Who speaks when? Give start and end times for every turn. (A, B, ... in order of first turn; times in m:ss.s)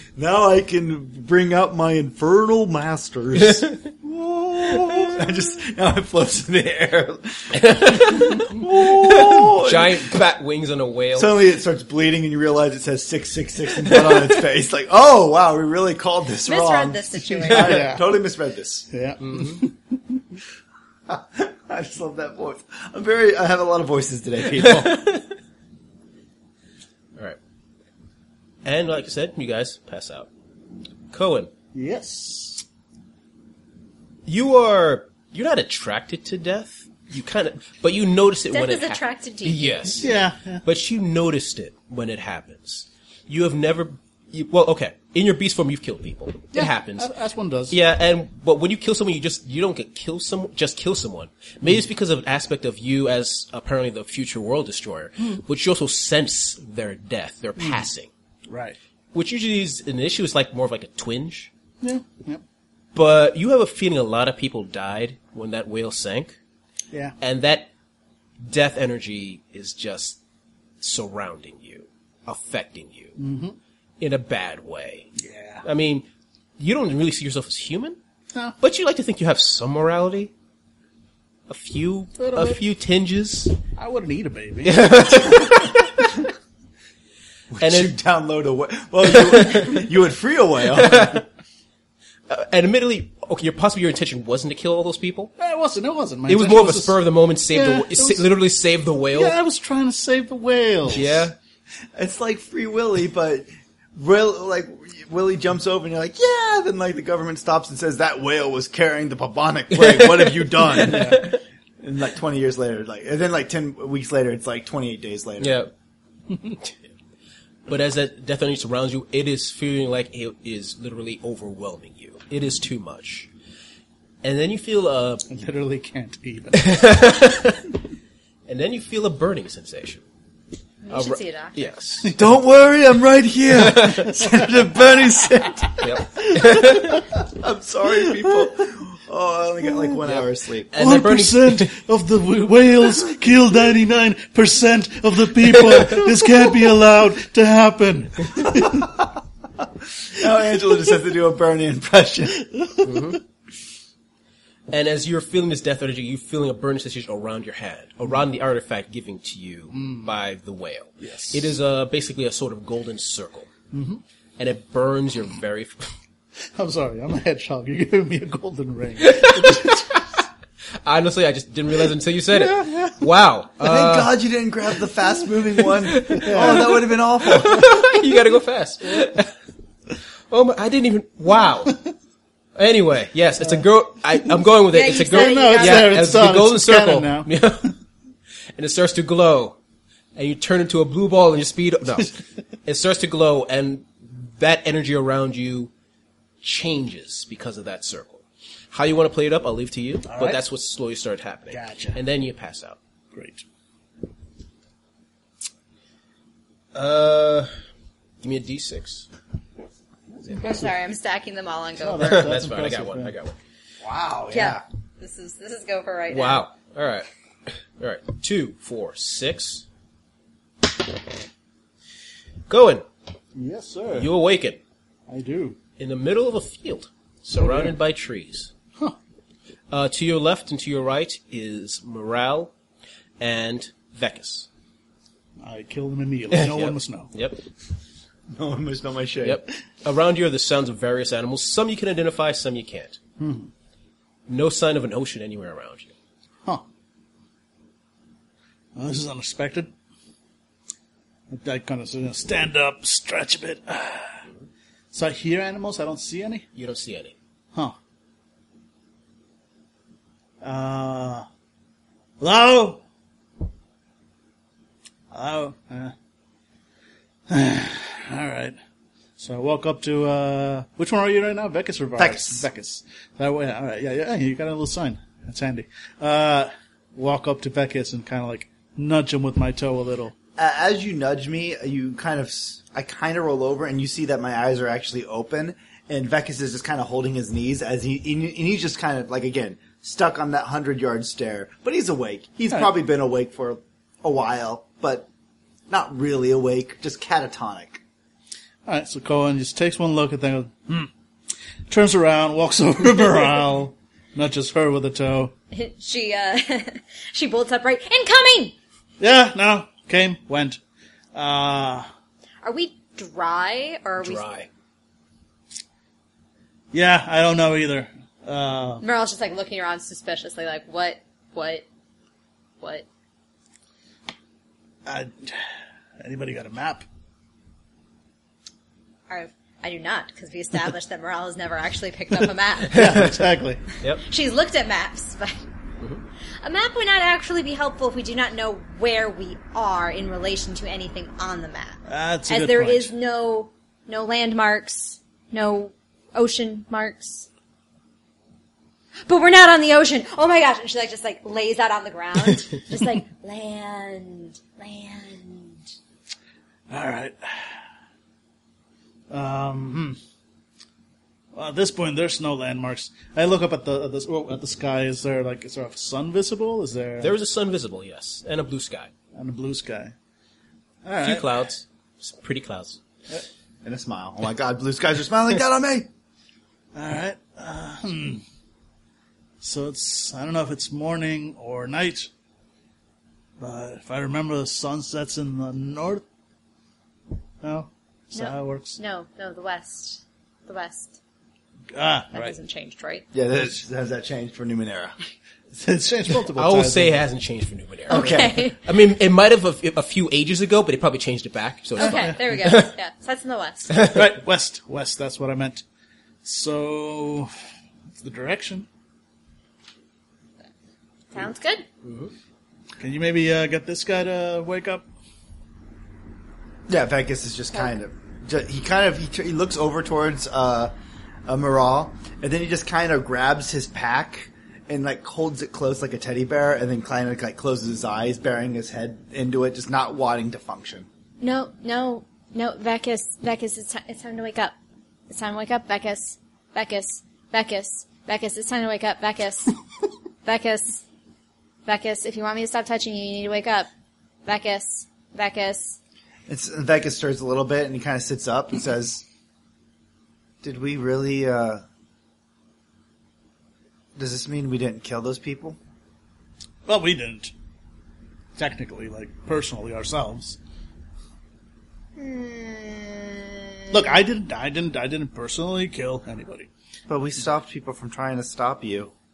0:00.2-0:10.2 A
0:03.4-0:03.7 B
0:07.6-0:11.4 B
0:11.2-0:18.9 A
0:16.4-0:18.0 C
0:17.4-0:18.1 D
0:18.9-0:20.2 D
0:19.2-0:19.6 B
0:21.1-0:25.1 A
0:24.6-0:25.3 B
0:28.6-0:30.3 B
0:31.1-0:31.5 B
0:31.7-0:32.6 D
0:34.3-0:40.1 B
0:38.5-0:40.0 C
0:40.0-0:40.6 D
0:40.6-0:47.1 B
0:47.0-0:47.8 D
0:47.7-0:58.1 B
0:57.6-0:57.9 D
0:58.5-0:58.8 D
0:59.1-1:01.5 B
1:01.8-1:02.4 D
1:03.0-1:06.4 B
1:07.2-1:07.7 B
1:08.4-1:10.2 B
1:10.8-1:13.2 B
1:13.2-1:13.6 D
1:14.0-1:15.1 B
1:15.2-1:15.7 D
1:15.6-1:18.0 B
1:18.6-1:20.3 B
1:21.5-1:23.6 B
1:22.2-1:22.6 D
1:23.8-1:25.3 D
1:24.6-1:26.1 B
1:27.5-1:31.2 A
1:27.6-1:28.0 B
1:29.0-1:29.8 B
1:30.8-1:31.2 B
1:32.3-1:35.3 B
1:35.4-1:38.3 D
1:36.3-1:39.4 B
1:39.1-1:41.3 D
1:40.9-1:41.4 B
1:42.0-1:55.6 A
1:49.7-1:51.4 B
1:50.8-1:51.3 D
1:55.4-1:55.7 B
1:57.7-2:03.3 B
2:04.2-2:05.3 B
2:05.3-2:06.8 D
2:06.6-2:07.6 B
2:08.5-2:10.0 B
2:10.8-2:11.7 C
2:10.9-2:12.2 B
2:12.2-2:15.9 A
2:13.6-2:14.1 B
2:14.2-2:14.7 D
2:15.8-2:17.1 B
2:16.2-2:17.2 D
2:17.1-2:20.7 A
2:20.0-2:21.8 B
2:20.8-2:29.0 D
2:25.8-2:26.0 B
2:28.5-2:28.9 A
2:30.1-2:32.4 A
2:32.4-2:33.2 D
2:32.8-2:33.2 B
2:34.7-2:43.5 B
2:39.7-2:40.2 D
2:41.0-2:41.5 D
2:43.7-2:44.0 D
2:44.4-2:45.9 B
2:46.6-2:50.0 D
2:49.0-2:50.0 B
2:50.8-2:54.1 B
2:53.6-2:57.8 A
2:55.8-2:59.3 B
2:56.1-2:56.8 D
3:00.3-3:01.8 B
3:02.6-3:07.7 B
3:04.7-3:06.0 C
3:04.9-3:07.3 D
3:08.6-3:09.6 B
3:10.2-3:15.7 B
3:16.4-3:22.8 B
3:20.1-3:20.4 D
3:21.5-3:22.0 D
3:23.1-3:23.4 D
3:26.7-3:27.5 B
3:28.2-3:29.1 B
3:30.3-3:32.4 C
3:31.8-3:33.1 D
3:32.0-3:33.4 B
3:33.8-3:34.6 A
3:34.3-3:36.4 C
3:36.1-3:39.7 B
3:42.5-3:42.9 B
3:43.4-3:44.1 D
3:43.9-3:44.6 B
3:45.1-3:45.6 D
3:45.8-3:48.5 B
3:47.4-3:47.8 D
3:49.7-3:52.5 B
3:53.2-3:54.5 B
3:55.4-3:57.1 D
3:56.3-3:57.4 B
3:58.3-3:59.4 A
3:59.2-4:03.0 B
4:03.2-4:03.5 D
4:04.3-4:05.9 B
4:08.8-4:09.7 D
4:11.3-4:14.2 D
4:14.9-4:16.5 D
4:16.6-4:17.2 B
4:20.4-4:21.2 D
4:22.2-4:22.8 D
4:25.1-4:25.9 D
4:27.3-4:28.6 D
4:29.2-4:40.1 D
4:32.0-4:32.5 A
4:40.4-4:55.1 A
4:55.7-4:57.8 A
4:58.7-5:00.9 D
5:01.7-5:05.3 D
5:05.5-5:08.5 C
5:09.0-5:10.6 D
5:11.2-5:11.9 D
5:12.4-5:14.2 C
5:14.0-5:14.5 B
5:16.7-5:18.8 D
5:18.8-5:21.6 C
5:22.6-5:22.9 C
5:24.9-5:25.4 D
5:26.0-5:26.8 D
5:29.1-5:33.1 C
5:32.7-5:33.6 D
5:32.7-5:33.2 B
5:34.0-5:35.4 C
5:36.4-5:47.3 C
5:41.9-5:42.9 D
5:49.1-5:55.6 C
5:56.7-5:57.6 D
5:59.1-6:00.0 D
6:01.3-6:07.2 D
6:07.0-6:08.9 B
6:09.2-6:09.9 D
6:10.8-6:11.4 D
6:11.0-6:12.8 B
6:13.6-6:15.9 A
6:16.7-6:18.2 D
6:19.4-6:22.1 D
6:23.4-6:26.0 D
6:27.4-6:28.8 D
6:28.1-6:31.0 C
6:31.7-6:32.4 D
6:32.1-6:33.1 C
6:33.1-6:35.0 A
6:35.5-6:37.0 D
6:36.3-6:42.7 B
6:37.9-6:38.6 C
6:37.9-6:38.5 A
6:41.8-6:43.8 C
6:41.8-6:42.2 D
6:43.7-6:44.0 B
6:43.8-6:45.6 D
6:46.2-6:47.3 D
6:48.0-6:48.7 D
6:51.1-6:51.7 C
6:51.8-6:52.1 B
6:52.8-6:54.8 D
6:56.7-7:00.7 A
7:01.3-7:10.9 A
7:11.2-7:14.6 C
7:15.1-7:19.5 C
7:20.2-7:20.8 C
7:21.7-7:23.7 C
7:24.2-7:25.8 C
7:26.3-7:29.0 A
7:30.4-7:31.6 A
7:34.0-7:35.6 A
7:36.7-7:37.3 D
7:38.4-7:40.4 D
7:42.0-7:43.8 C
7:43.7-7:46.5 D
7:46.9-7:48.9 A